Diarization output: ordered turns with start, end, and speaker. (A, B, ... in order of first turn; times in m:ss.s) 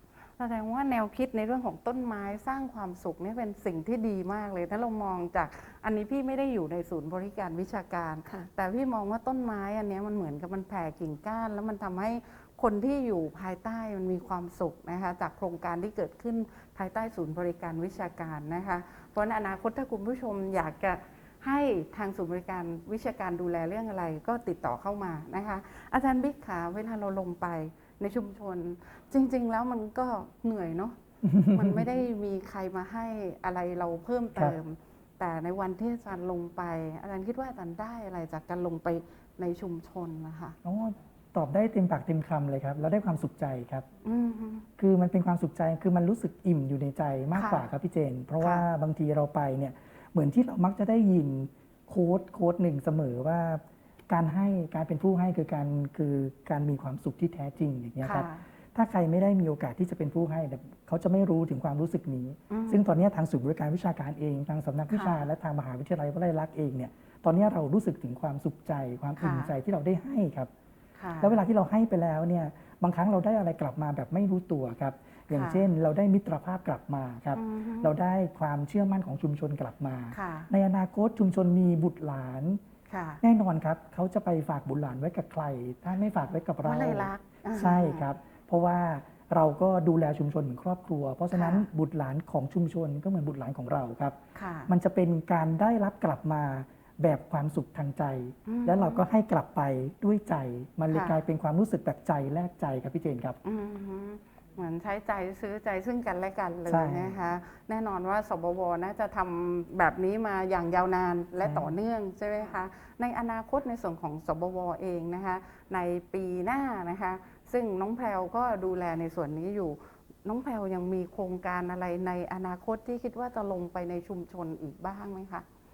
0:00.4-0:31.0 A
0:31.2-0:31.8 B
0:31.5-0:40.6 A
0:40.6-0:43.9 B
0:44.0-0:44.6 A
0:44.8-1:10.5 B
0:47.3-0:47.6 A
0:48.4-0:48.6 A
0:58.0-0:58.4 A
1:02.5-1:02.8 A
1:04.9-1:05.2 A
1:09.2-1:09.5 A
1:11.0-1:11.4 A
1:11.2-1:22.6 B
1:15.3-1:15.6 A
1:17.3-1:17.9 A
1:20.1-1:20.5 A
1:22.9-1:23.2 A
1:23.2-1:43.4 B
1:26.6-1:28.0 A
1:31.3-1:31.6 A
1:34.3-1:34.7 A
1:38.5-1:39.0 A
1:40.9-1:41.2 A
1:43.4-2:05.4 A
1:46.7-1:47.2 B
1:51.4-1:51.7 B